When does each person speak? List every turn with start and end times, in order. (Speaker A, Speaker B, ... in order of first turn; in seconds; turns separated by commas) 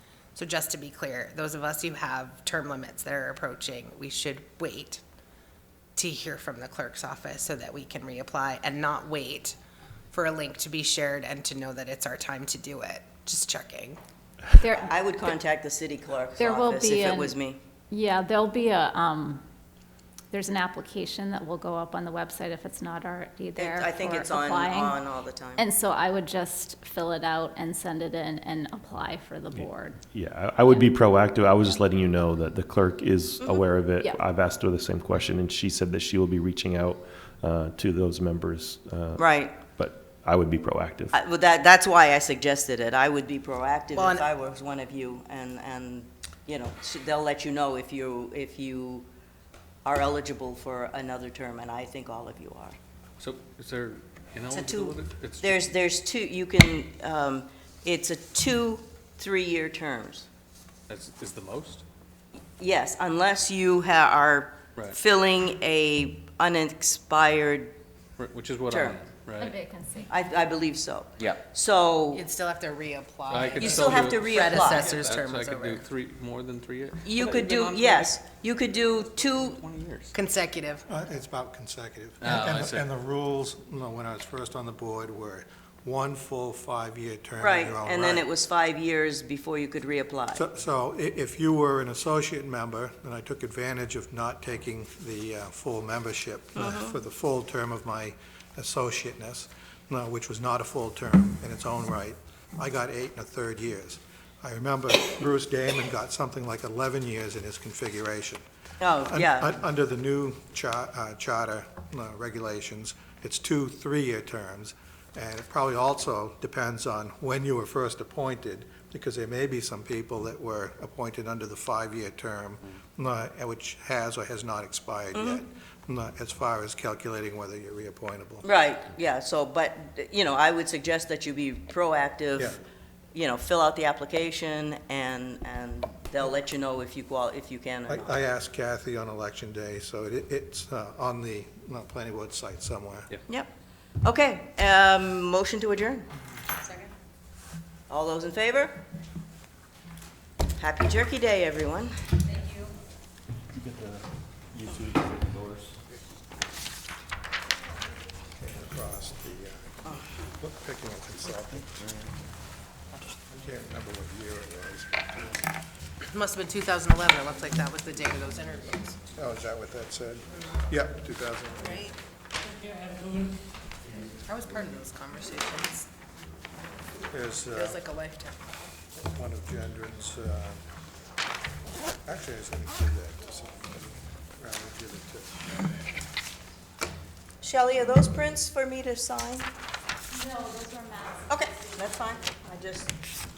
Speaker A: 0.3-5.0, Speaker A: 6.0-9.6, Speaker A: 10.1-14.0, Speaker B: 14.6-15.3, Speaker C: 14.7-17.6, Speaker B: 16.4-17.4, Speaker B: 17.9-19.4, Speaker B: 20.3-30.0, Speaker C: 23.6-25.6, Speaker D: 29.6-41.1, Speaker C: 33.4-33.7, Speaker C: 39.1-39.6, Speaker C: 41.1-49.0, Speaker A: 43.9-44.2, Speaker C: 49.8-52.8, Speaker E: 53.2-55.5, Speaker C: 54.5-60.2, Speaker E: 60.9-61.8, Speaker C: 62.6-67.7, Speaker E: 68.2-69.5, Speaker C: 68.7-69.0, Speaker B: 69.4-70.2, Speaker C: 70.1-72.2, Speaker A: 72.1-75.9, Speaker E: 73.3-78.1, Speaker C: 73.6-74.9, Speaker C: 77.0-79.6, Speaker E: 79.3-80.1, Speaker A: 80.1-80.8, Speaker F: 80.9-88.2, Speaker E: 82.2-82.8, Speaker C: 87.4-90.4, Speaker F: 90.3-108.4, Speaker C: 96.5-97.0, Speaker C: 108.8-109.5, Speaker F: 109.1-128.4, Speaker C: 125.1-125.4, Speaker C: 128.4-132.6, Speaker C: 133.1-138.2, Speaker F: 137.9-143.1, Speaker C: 144.0-146.1, Speaker C: 147.9-148.8, Speaker C: 150.6-151.9, Speaker D: 153.6-154.0, Speaker D: 154.6-155.6, Speaker F: 158.4-162.0, Speaker F: 163.3-165.3, Speaker A: 166.1-169.0, Speaker F: 169.1-171.8, Speaker A: 171.6-171.9, Speaker A: 174.2-175.9, Speaker F: 177.1-177.8, Speaker A: 177.5-178.4, Speaker F: 179.0-180.6, Speaker F: 182.0-185.4, Speaker C: 187.4-189.5, Speaker B: 190.2-191.4, Speaker C: 191.3-192.9